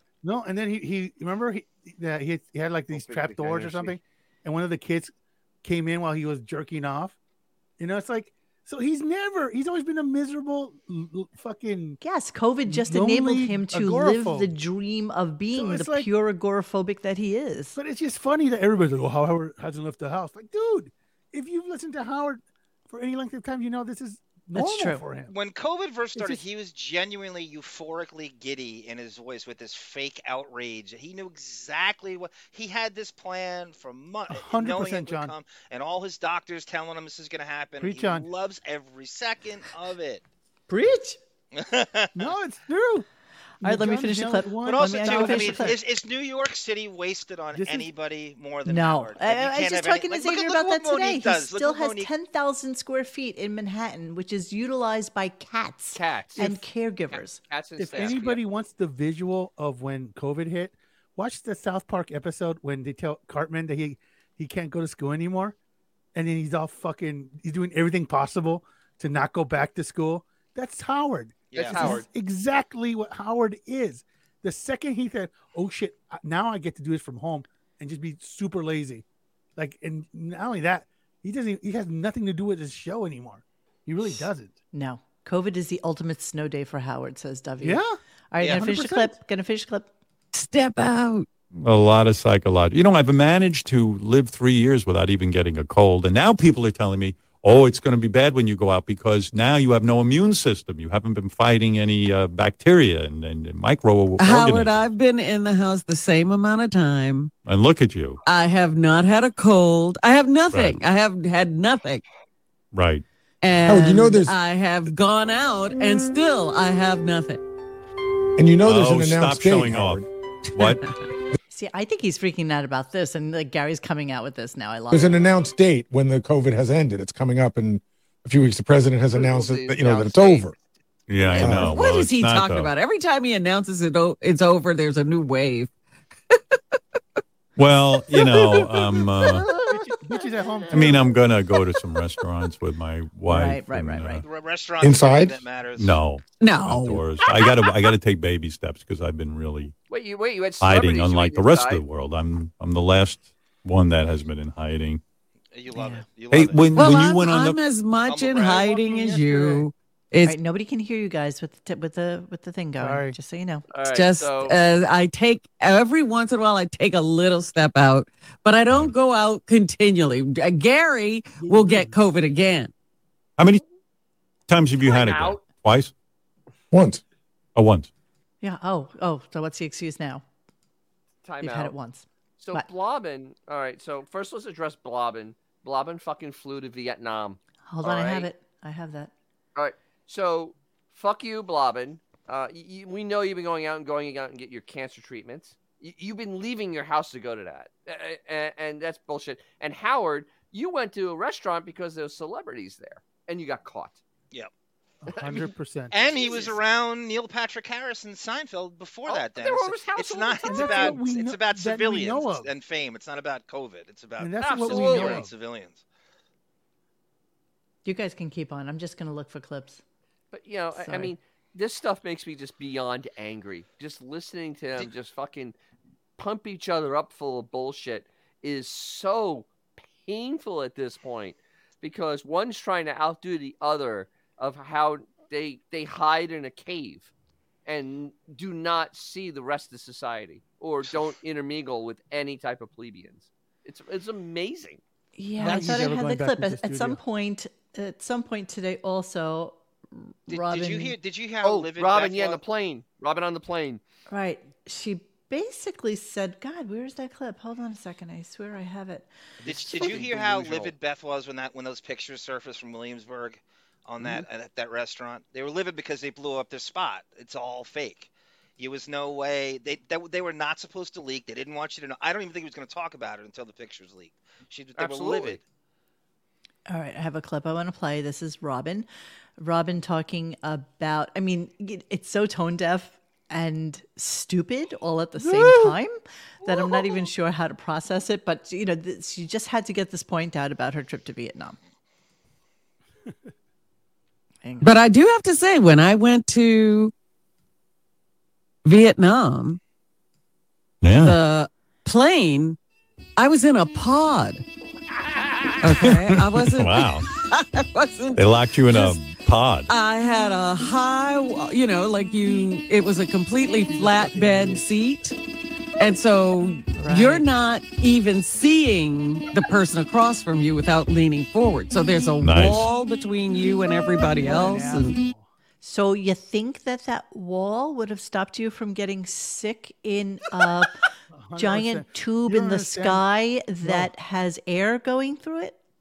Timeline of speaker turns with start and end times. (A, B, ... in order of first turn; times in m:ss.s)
0:00.2-0:05.1 A
0:02.9-0:04.0 B
0:05.6-0:07.2 A
0:07.8-0:12.0 A
0:12.0-0:17.8 C
0:12.7-0:14.5 A
0:15.5-0:16.1 A
0:17.8-0:25.3 A
0:24.6-0:25.0 C
0:25.3-0:40.2 D
0:26.2-0:26.4 A
0:34.3-0:35.3 A
0:37.8-0:38.3 A
0:40.7-0:41.2 C
0:41.5-0:42.3 D
0:42.2-0:43.1 A
0:43.6-0:45.8 C
0:43.6-0:45.8 A
0:44.6-0:52.1 D
0:47.5-0:47.9 A
0:48.7-0:57.4 C
0:56.0-0:58.4 B
0:57.8-1:05.6 A
1:06.2-1:19.0 A
1:11.5-1:12.0 D
1:11.5-1:12.1 B
1:19.6-1:24.6 A
1:24.7-1:29.9 C
1:27.6-1:29.2 A
1:30.3-1:31.3 E
1:31.5-1:44.9 F
1:44.2-1:47.3 E
1:47.4-1:48.2 F
1:48.3-1:52.0 E
1:50.5-1:50.8 F
1:52.7-1:53.0 F
1:53.4-1:57.4 E
1:53.6-1:54.4 G
1:58.4-2:00.1 G
1:58.6-2:00.8 F
2:00.6-2:00.9 E
2:01.5-2:05.2 C
2:04.9-2:10.6 G
2:09.1-2:10.5 B
2:11.1-2:12.7 F
2:11.3-2:11.8 G
2:11.4-2:15.7 E
2:16.3-2:16.6 E
2:17.6-2:19.5 F
2:17.9-2:20.3 E
2:19.7-2:21.1 A
2:20.7-2:24.2 F
2:21.5-2:22.5 E
2:23.3-2:24.2 C
2:24.2-2:26.0 D
2:24.8-2:25.5 G
2:25.8-2:29.8 F
2:26.4-2:27.0 E
2:29.9-2:31.8 B
2:30.6-2:35.0 F
2:35.5-2:37.0 D
2:35.7-2:36.0 C
2:36.3-2:37.6 F
2:36.8-2:40.4 E
2:38.0-2:39.6 D
2:40.2-2:43.6 C
2:42.8-2:43.2 A
2:43.7-2:44.6 B
2:43.9-2:52.7 E
2:51.4-2:52.0 A
2:53.4-2:53.6 F
2:54.5-2:55.9 F
2:54.8-2:55.4 B
2:56.7-2:57.0 G
2:57.6-2:57.9 F
2:58.4-3:00.2 C
3:01.2-3:01.8 B
3:01.4-3:02.7 C
3:02.4-3:08.3 B
3:07.7-3:09.1 C
3:09.6-3:24.0 B
3:25.0-3:26.1 A
3:25.9-3:35.8 D
3:26.2-3:26.6 B
3:29.1-3:31.0 B
3:30.5-3:32.5 A
3:34.2-3:35.3 A
3:34.4-3:35.3 B
3:37.8-3:39.8 C
3:40.3-3:45.6 B
3:40.8-3:41.1 C
3:46.2-3:57.1 B
3:57.7-4:04.8 B
4:05.2-4:11.0 C
4:05.4-4:07.0 A
4:10.3-4:12.4 D
4:11.4-4:13.8 B
4:14.1-4:19.1 C
4:19.4-4:35.4 D
4:19.5-4:20.7 B
4:34.8-4:35.4 B
4:36.7-4:38.9 C
4:39.4-4:51.6 C
4:45.2-4:45.8 A
4:54.4-4:54.7 C
4:54.6-4:56.9 E
4:58.6-4:59.6 E
5:00.8-5:01.2 F
5:01.0-5:02.6 E
5:03.2-5:04.4 E
5:05.6-5:09.0 E
5:05.8-5:07.1 F
5:08.2-5:09.7 F
5:09.7-5:15.2 E
5:13.6-5:14.8 A
5:15.8-5:25.0 E
5:16.8-5:17.2 C
5:22.2-5:22.7 F
5:24.2-5:25.3 A
5:25.6-5:30.8 C
5:31.1-5:33.0 A
5:31.4-5:35.6 C
5:33.6-5:33.9 A